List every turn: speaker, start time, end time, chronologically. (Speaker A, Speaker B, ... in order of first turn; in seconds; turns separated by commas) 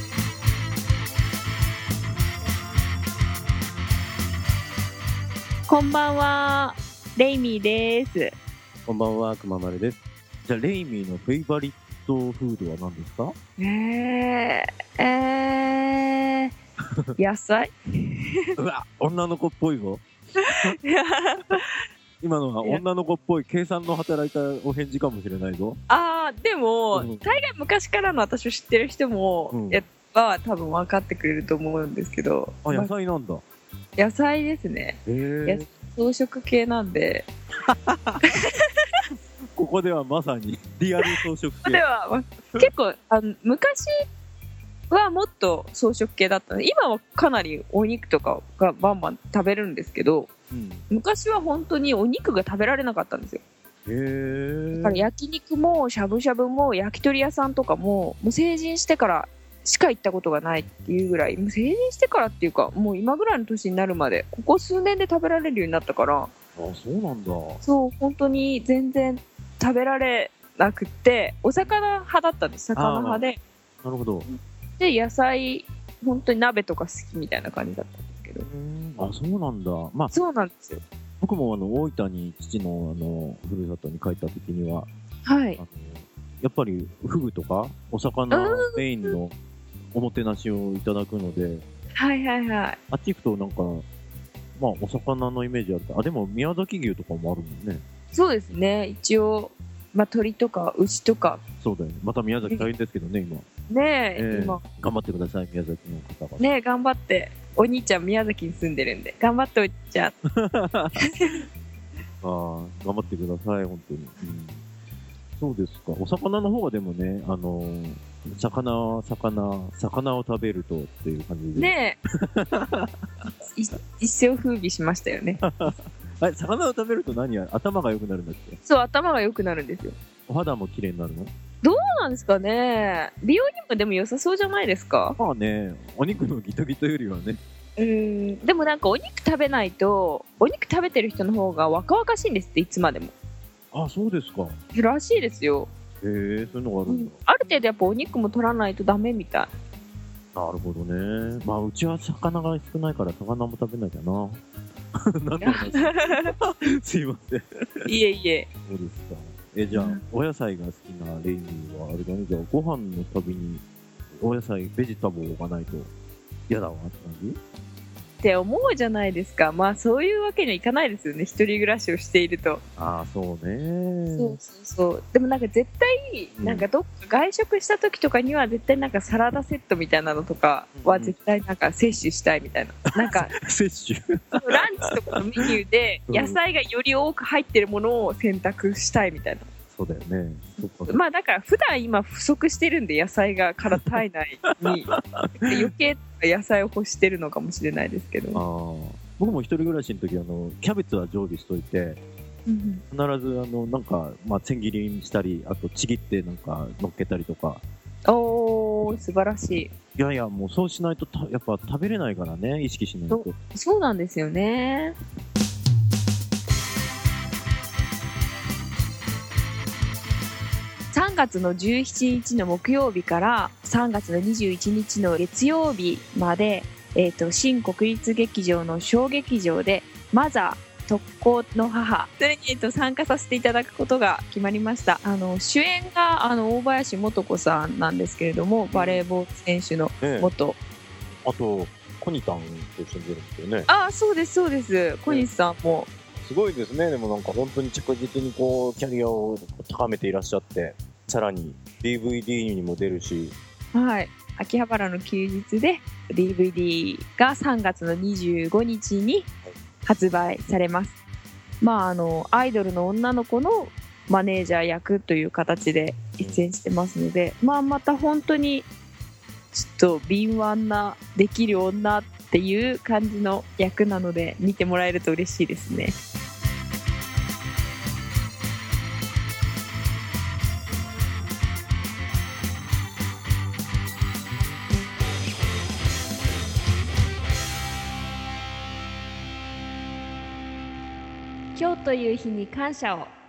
Speaker A: 5.7-8.3, Speaker B: 8.9-13.3, Speaker A: 13.6-16.5, Speaker A: 17.2-18.6, Speaker B: 18.6-20.8, Speaker A: 20.4-21.8, Speaker B: 22.2-25.8, Speaker A: 25.9-32.9, Speaker B: 26.9-27.4, Speaker B: 29.5-29.8, Speaker B: 32.6-33.4, Speaker A: 34.0-37.2, Speaker B: 35.0-35.6, Speaker B: 37.6-38.3, Speaker A: 38.2-38.8, Speaker B: 39.5-41.8, Speaker A: 41.0-43.9, Speaker A: 44.9-50.3, Speaker B: 50.5-50.8, Speaker A: 50.9-53.4, Speaker B: 53.9-55.1, Speaker A: 54.7-66.3, Speaker B: 66.6-67.6, Speaker A: 67.6-73.4, Speaker B: 72.8-73.2, Speaker B: 73.8-74.3, Speaker A: 74.3-78.5, Speaker B: 78.4-80.1, Speaker A: 80.1-80.8, Speaker B: 81.2-84.9, Speaker A: 85.2-85.6, Speaker B: 85.6-89.3, Speaker A: 88.3-89.2, Speaker B: 89.9-91.7, Speaker A: 92.0-92.8, Speaker B: 92.9-93.8, Speaker B: 94.6-97.8, Speaker A: 98.1-101.4, Speaker B: 101.6-103.5, Speaker A: 103.7-104.6, Speaker B: 104.2-106.5, Speaker A: 106.4-110.1, Speaker B: 110.4-111.0, Speaker A: 111.0-111.4, Speaker B: 112.2-114.6, Speaker B: 115.4-123.3, Speaker A: 121.6-122.0, Speaker A: 123.5-125.7, Speaker B: 125.4-128.6, Speaker A: 128.7-129.9, Speaker B: 130.3-131.3, Speaker A: 131.6-135.2, Speaker B: 135.2-137.4, Speaker A: 137.8-143.1, Speaker B: 143.7-144.6, Speaker A: 144.7-145.7, Speaker B: 146.0-147.1, Speaker A: 146.9-149.5, Speaker B: 150.3-154.4, Speaker B: 155.1-157.9, Speaker A: 155.4-156.3, Speaker A: 157.8-158.5, Speaker B: 158.7-163.6, Speaker A: 159.7-160.0, Speaker B: 164.2-165.9, Speaker B: 166.5-167.4, Speaker A: 168.2-172.6, Speaker B: 172.8-174.4, Speaker A: 174.1-183.3, Speaker B: 176.4-176.7, Speaker B: 180.8-181.2, Speaker B: 183.0-184.8, Speaker A: 184.3-189.5, Speaker B: 186.1-186.4, Speaker B: 189.7-190.9, Speaker A: 190.9-194.9, Speaker B: 194.6-195.7, Speaker A: 195.4-198.4, Speaker B: 198.3-202.0, Speaker A: 202.5-202.8, Speaker B: 202.9-207.6, Speaker A: 208.1-209.7, Speaker B: 210.0-213.3, Speaker A: 213.1-214.9, Speaker A: 220.9-240.6, Speaker B: 238.7-239.0, Speaker B: 240.0-240.3, Speaker B: 241.2-243.7, Speaker A: 243.7-245.9, Speaker B: 246.2-253.3, Speaker A: 253.7-259.3, Speaker A: 259.9-261.0, Speaker A: 261.6-268.7, Speaker A: 269.5-275.9, Speaker A: 291.6-293.1